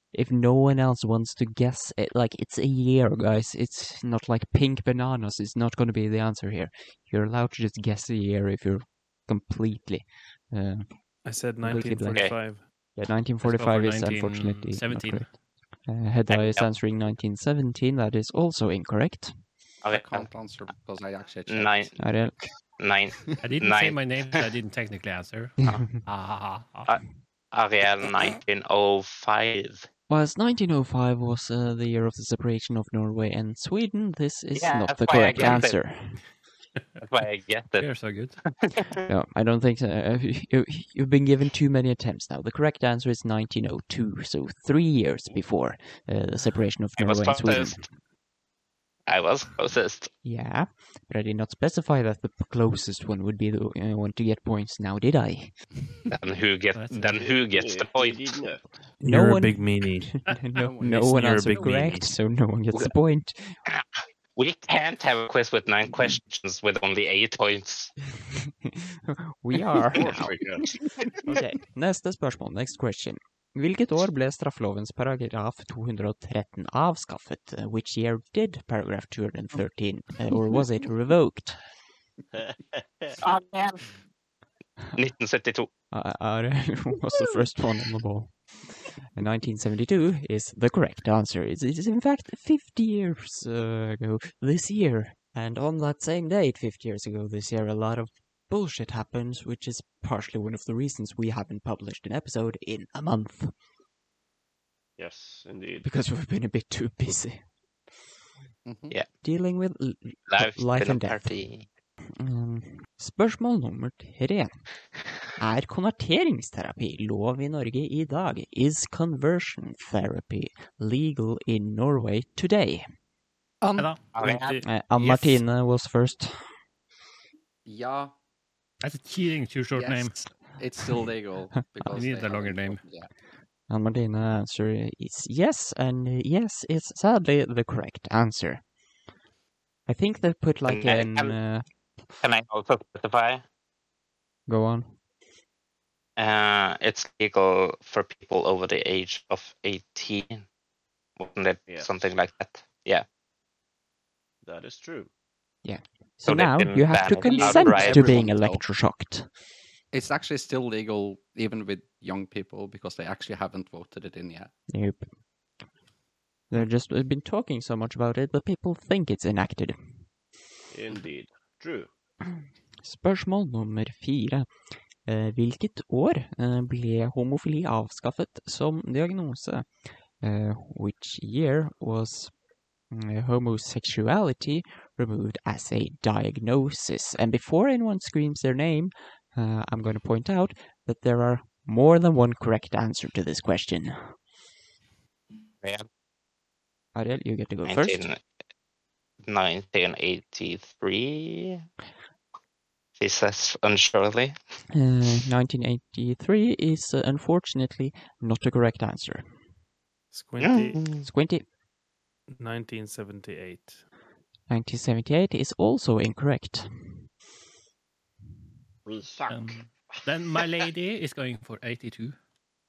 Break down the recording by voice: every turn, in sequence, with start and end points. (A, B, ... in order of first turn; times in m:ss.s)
0:00.1-0:11.0 A
0:11.2-0:12.7 B
0:11.6-0:19.4 A
0:13.4-0:15.3 C
0:16.3-0:16.8 D
0:19.8-0:20.3 D
0:19.9-0:22.0 E
0:21.5-0:21.9 D
0:22.0-0:22.4 A
0:22.8-0:24.1 D
0:23.4-0:26.9 C
0:25.6-0:26.0 A
0:27.5-0:29.9 D
0:30.1-0:36.2 A
0:34.5-0:35.8 D
0:37.0-0:37.9 D
0:37.8-0:38.4 C
0:38.5-0:38.9 D
0:39.1-0:47.9 A
0:47.0-0:47.9 D
0:49.1-0:50.1 D
0:50.2-0:55.6 A
0:56.1-0:58.2 D
0:56.8-0:57.2 C
0:57.1-0:58.6 F
0:59.0-1:00.2 B
0:59.0-1:03.6 A
1:00.6-1:02.0 E
1:00.9-1:02.0 B
1:04.4-1:07.9 D
1:08.2-1:10.3 A
1:09.9-1:10.7 F
1:11.3-1:21.6 A
1:22.3-1:23.2 F
1:23.2-1:23.9 D
1:25.0-1:25.7 D
1:25.9-1:28.4 A
1:29.1-1:43.5 A
1:45.0-1:45.9 F
1:45.8-1:47.4 A
1:48.6-1:49.0 E
1:49.2-1:51.3 A
1:50.3-1:51.7 D
1:52.2-1:54.5 A
1:55.4-2:02.8 A
2:03.6-2:04.0 E
2:03.8-2:05.3 C
2:04.1-2:04.6 D
2:04.6-2:06.5 A
2:07.6-2:08.1 E
2:08.8-2:10.2 C
2:09.7-2:13.1 E
2:11.9-2:12.8 C
2:13.7-2:18.6 A
2:19.9-2:21.6 A
2:20.7-2:21.4 D
2:22.2-2:23.4 D
2:24.5-2:24.9 A
2:26.2-2:30.5 D
2:31.2-2:33.0 D
2:34.4-2:35.1 F
2:35.6-2:39.3 A
2:36.2-2:38.4 D
2:37.2-2:38.6 E
2:39.9-2:44.5 E
2:44.7-2:45.1 A
2:46.5-2:50.0 A
2:50.7-2:51.9 F
2:52.8-2:54.5 A
2:55.0-2:59.7 A
3:00.2-3:02.3 A
3:02.9-3:14.1 A
3:17.0-3:18.1 A
3:17.6-3:18.2 D
3:19.2-3:21.6 D
3:23.0-3:24.4 D
3:24.7-3:29.4 A
3:30.1-3:31.0 B
3:30.4-3:30.9 D
3:31.0-3:31.5 A
3:32.3-3:33.9 B
3:34.5-3:37.1 A
3:38.9-3:40.4 F
3:39.3-3:42.1 C